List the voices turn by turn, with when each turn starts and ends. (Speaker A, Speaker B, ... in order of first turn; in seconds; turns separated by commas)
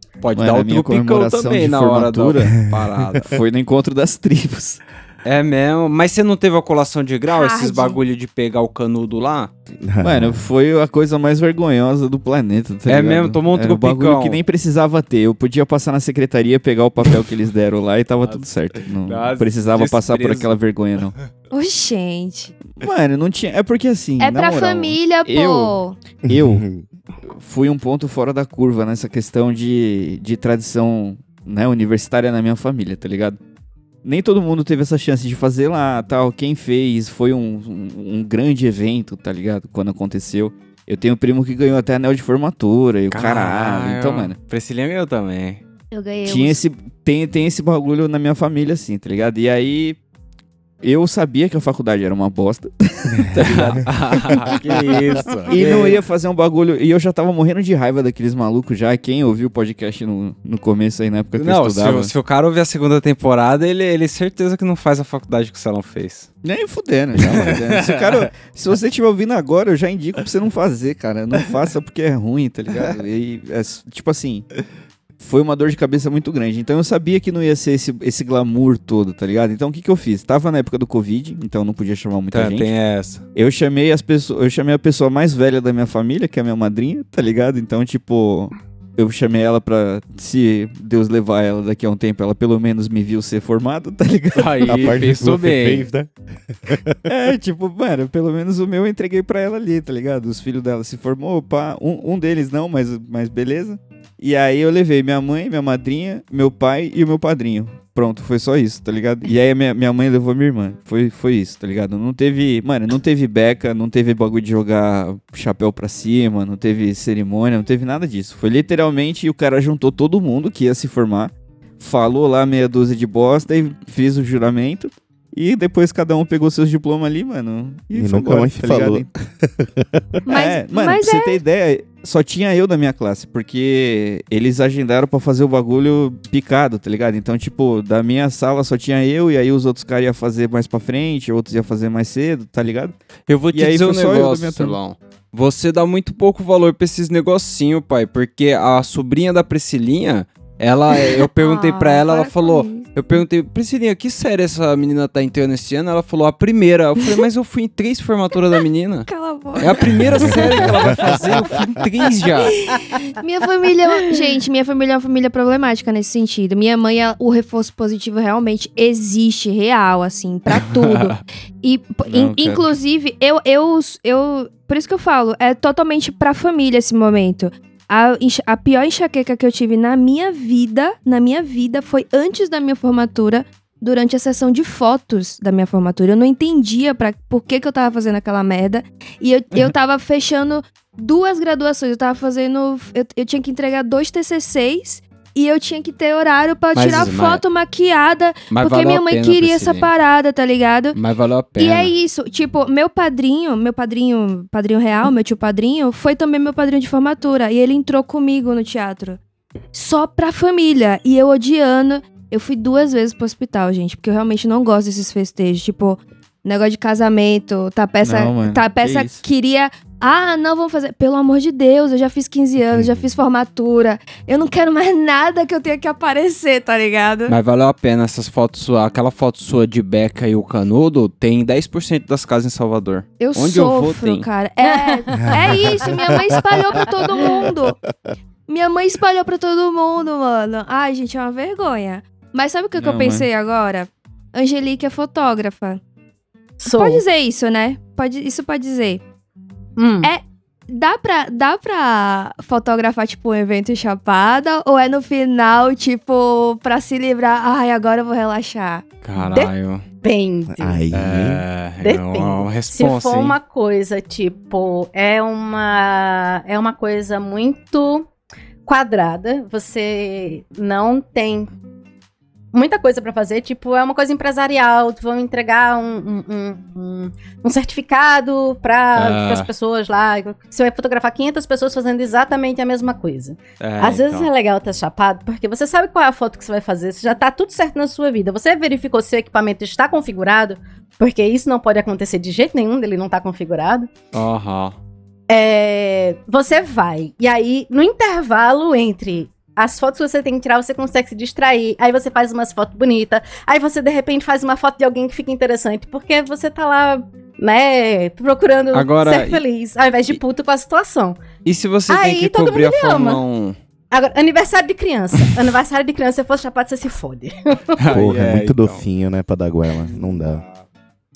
Speaker A: 0.2-3.4, Speaker B: 0.3-2.6, Speaker B: 3.2-4.8, Speaker A: 5.2-9.5, Speaker C: 7.3-8.0, Speaker D: 9.8-10.4, Speaker B: 10.0-21.1, Speaker A: 12.9-14.4, Speaker A: 18.2-20.6, Speaker C: 21.5-22.5, Speaker B: 22.8-26.6, Speaker C: 24.2-26.0, Speaker D: 26.2-26.8, Speaker B: 27.4-33.4, Speaker B: 34.0-44.3, Speaker A: 43.1-45.6, Speaker C: 45.9-46.6, Speaker B: 46.2-50.0, Speaker B: 50.8-54.5, Speaker A: 53.3-56.0, Speaker B: 55.5-62.1, Speaker A: 61.3-66.3, Speaker B: 66.4-74.5, Speaker A: 67.2-68.3, Speaker B: 75.2-82.7, Speaker A: 82.3-83.2, Speaker B: 83.3-95.0, Speaker A: 94.3-95.9, Speaker D: 94.7-97.0, Speaker B: 97.0-129.1, Speaker D: 127.9-130.2, Speaker C: 130.3-131.4, Speaker B: 130.3-142.9, Speaker A: 143.3-162.6, Speaker B: 143.5-144.8, Speaker C: 151.4-153.2, Speaker C: 159.1-160.7, Speaker D: 160.1-161.1, Speaker C: 162.6-201.0, Speaker A: 170.6-171.2, Speaker B: 172.1-172.7, Speaker A: 196.7-197.4, Speaker A: 198.5-199.9, Speaker A: 200.9-201.9, Speaker C: 201.6-209.2, Speaker C: 209.7-227.3, Speaker B: 218.0-219.2, Speaker D: 222.7-223.1, Speaker A: 227.3-234.3, Speaker C: 233.2-237.8, Speaker E: 234.6-235.3, Speaker D: 235.3-235.9, Speaker C: 238.5-245.8, Speaker B: 242.8-243.3, Speaker E: 246.6-247.0, Speaker C: 246.7-249.0, Speaker E: 249.8-250.1, Speaker C: 250.0-258.8, Speaker A: 259.0-259.8, Speaker E: 259.2-260.8, Speaker D: 260.5-261.4, Speaker A: 260.9-263.4, Speaker E: 261.8-268.1, Speaker E: 268.6-271.5, Speaker E: 272.5-293.9, Speaker A: 278.9-279.5, Speaker A: 283.6-284.3, Speaker A: 294.1-294.8, Speaker E: 295.3-311.2, Speaker A: 308.7-309.4, Speaker A: 311.4-313.6, Speaker E: 311.9-313.2, Speaker E: 313.9-317.8, Speaker A: 317.8-318.9, Speaker D: 317.9-320.4, Speaker A: 319.9-320.6